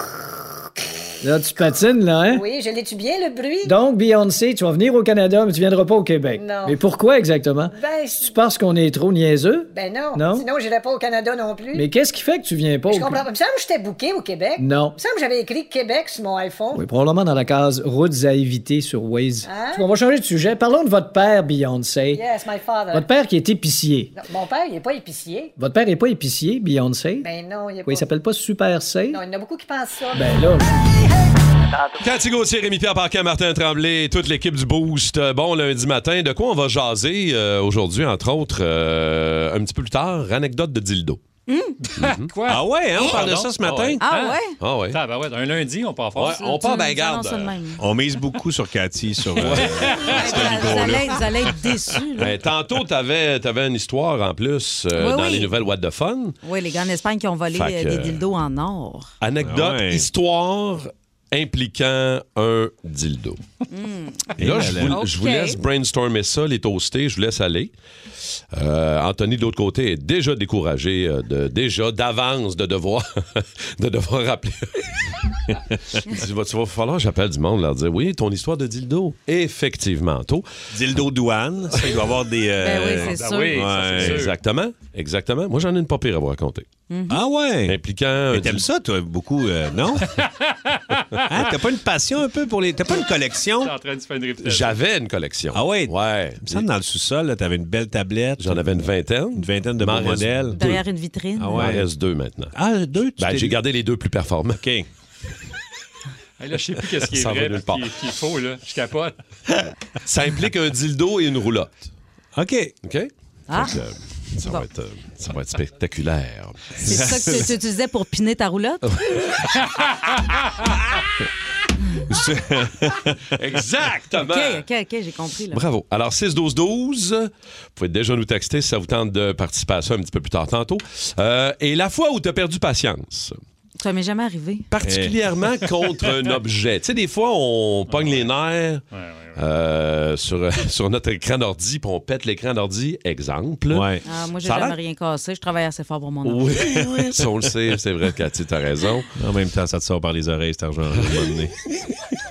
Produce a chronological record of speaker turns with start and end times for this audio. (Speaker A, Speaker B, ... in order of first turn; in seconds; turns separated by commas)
Speaker A: 1.2-2.4, Speaker B: 2.2-3.8, Speaker A: 3.6-7.7, Speaker B: 6.3-6.8, Speaker B: 7.7-8.4, Speaker A: 8.3-10.4, Speaker B: 9.7-11.9, Speaker A: 11.7-13.2, Speaker B: 12.9-16.8, Speaker A: 14.6-15.0, Speaker A: 16.7-22.2, Speaker B: 19.4-19.9, Speaker B: 22.1-23.1, Speaker A: 22.9-24.1, Speaker B: 24.1-25.5, Speaker A: 25.6-27.3, Speaker B: 27.2-28.1, Speaker A: 27.9-29.2, Speaker B: 29.1-30.6, Speaker A: 30.1-30.8, Speaker B: 31.7-32.0, Speaker C: 32.0-41.2, Speaker D: 41.5-41.8, Speaker E: 41.9-44.4, Speaker C: 42.0-42.3, Speaker F: 42.5-44.0, Speaker C: 43.1-44.0, Speaker D: 44.0-44.6, Speaker C: 44.6-45.0, Speaker E: 44.9-46.4, Speaker C: 46.1-47.5, Speaker D: 46.3-47.8, Speaker F: 47.8-51.7, Speaker C: 49.4-50.8, Speaker D: 50.0-52.3, Speaker C: 52.2-56.4, Speaker D: 54.9-55.5, Speaker D: 56.4-59.1, Speaker C: 57.5-58.2, Speaker C: 59.2-63.4, Speaker F: 59.4-60.1, Speaker D: 63.7-65.6, Speaker F: 64.4-65.0, Speaker C: 64.4-67.7, Speaker C: 68.5-75.4, Speaker C: 75.9-80.5, Speaker F: 80.7-84.3, Speaker D: 82.6-83.7, Speaker E: 83.0-84.4, Speaker C: 83.8-86.7, Speaker D: 86.9-87.2, Speaker F: 87.1-87.8, Speaker C: 87.7-88.7, Speaker F: 88.3-90.1, Speaker E: 90.2-91.2, Speaker F: 91.2-93.7, Speaker E: 93.5-94.8, Speaker C: 94.4-96.7, Speaker F: 95.5-100.6, Speaker C: 98.4-100.8, Speaker D: 100.5-101.7, Speaker F: 101.4-101.9, Speaker C: 101.5-102.5, Speaker F: 102.5-103.6, Speaker C: 103.2-104.6, Speaker F: 104.6-104.9, Speaker E: 106.4-109.2, Speaker C: 107.0-107.9, Speaker C: 110.0-111.8, Speaker F: 112.3-112.7, Speaker C: 112.8-117.4, Speaker D: 113.5-113.8, Speaker F: 116.8-117.5, Speaker D: 116.8-118.9, Speaker C: 119.0-119.3, Speaker F: 122.1-123.2, Speaker C: 123.3-124.6, Speaker D: 124.2-125.6, Speaker C: 125.5-133.4, Speaker D: 133.8-134.7, Speaker C: 134.7-138.8, Speaker F: 134.8-135.1, Speaker E: 137.9-138.3, Speaker E: 138.9-139.4, Speaker C: 139.3-143.9, Speaker F: 143.7-144.0, Speaker D: 144.0-146.7, Speaker C: 144.4-144.8, Speaker C: 146.2-149.1, Speaker F: 146.6-147.2, Speaker F: 149.2-151.6, Speaker C: 151.0-151.3